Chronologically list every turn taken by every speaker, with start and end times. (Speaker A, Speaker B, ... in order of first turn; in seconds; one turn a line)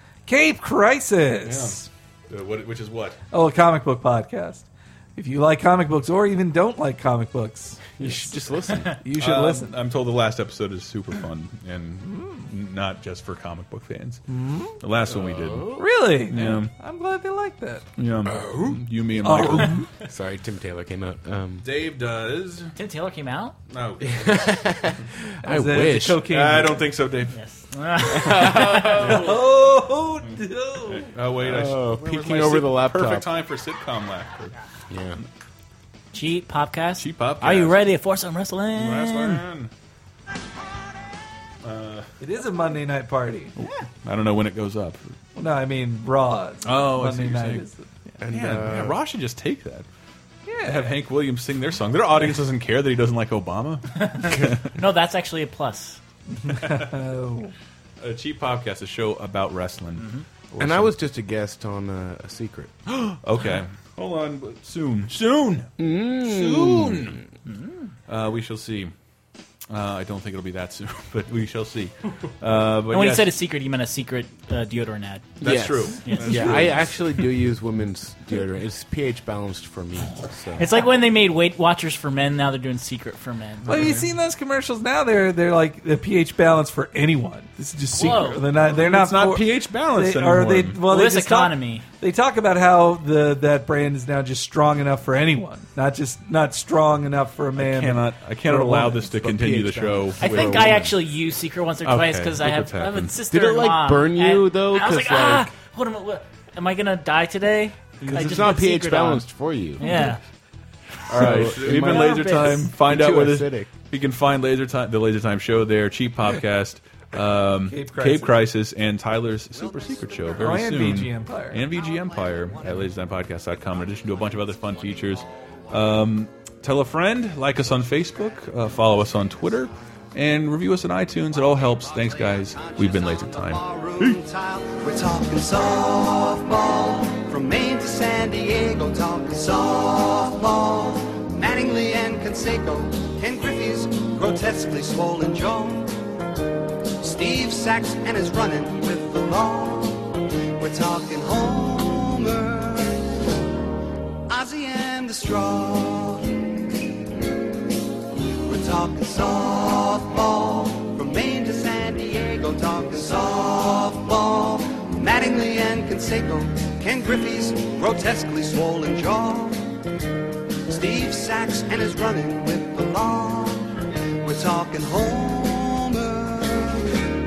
Speaker A: 0.3-1.9
Speaker B: 1.4-3.2
Speaker A: 3.3-9.8
Speaker C: 8.0-9.0
Speaker B: 9.2-14.2
Speaker A: 12.0-12.5
Speaker A: 14.3-14.8
Speaker B: 14.8-16.7
Speaker C: 15.1-15.8
Speaker A: 15.8-17.9
Speaker B: 18.0-19.9
Speaker C: 18.3-18.8
Speaker A: 19.2-19.9
Speaker C: 20.0-21.7
Speaker B: 21.6-22.7
Speaker D: 22.8-23.6
Speaker B: 23.7-24.6
Speaker C: 24.0-26.3
Speaker A: 25.4-26.9
Speaker B: 26.2-27.3
Speaker D: 27.3-29.1
Speaker C: 28.1-29.3
Speaker B: 28.4-29.5
Speaker A: 29.0-31.1
Speaker B: 30.9-34.5
Speaker C: 31.4-33.3
Speaker C: 34.9-35.2
Speaker D: 36.1-39.4
Speaker B: 37.0-37.8
Speaker B: 38.7-39.7
Speaker B: 41.6-42.1
Speaker A: 42.2-43.5
Speaker B: 43.6-45.0
Speaker A: 45.4-48.2
Speaker B: 46.6-47.7
Speaker C: 48.2-49.0
Speaker B: 48.3-49.9
Speaker A: 50.5-51.0
Speaker B: 50.6-54.8
Speaker D: 54.0-56.0
Speaker A: 56.3-57.5
Speaker B: 56.5-57.0
Speaker B: 58.0-60.9
Speaker D: 60.0-60.3
Speaker C: 60.6-62.7
Speaker B: 62.9-67.2
Speaker C: 65.8-67.2
Speaker D: 67.5-67.9
Speaker B: 68.1-68.9
Speaker B: 69.7-73.3
Speaker D: 72.9-75.4
Speaker B: 75.4-77.1
Speaker C: 75.4-80.7
Speaker D: 76.0-76.7
Speaker D: 80.6-84.0
Speaker B: 83.7-84.1
Speaker A: 83.7-99.1
Speaker D: 87.9-88.4
Speaker B: 88.5-90.9
Speaker D: 90.9-91.8
Speaker B: 97.6-100.9
Speaker C: 99.1-100.9
Speaker D: 100.2-109.3
Speaker B: 101.8-103.1
Speaker C: 103.3-105.5
Speaker C: 108.0-110.0
Speaker D: 109.8-110.2
Speaker B: 111.1-134.2
Speaker C: 111.1-113.7
Speaker D: 111.1-112.7
Speaker A: 117.6-118.4
Speaker A: 120.4-121.7
Speaker E: 132.3-145.9
Speaker E: 147.0-153.1
Speaker E: 154.3-156.6
Speaker E: 158.4-169.6
Speaker E: 170.7-177.0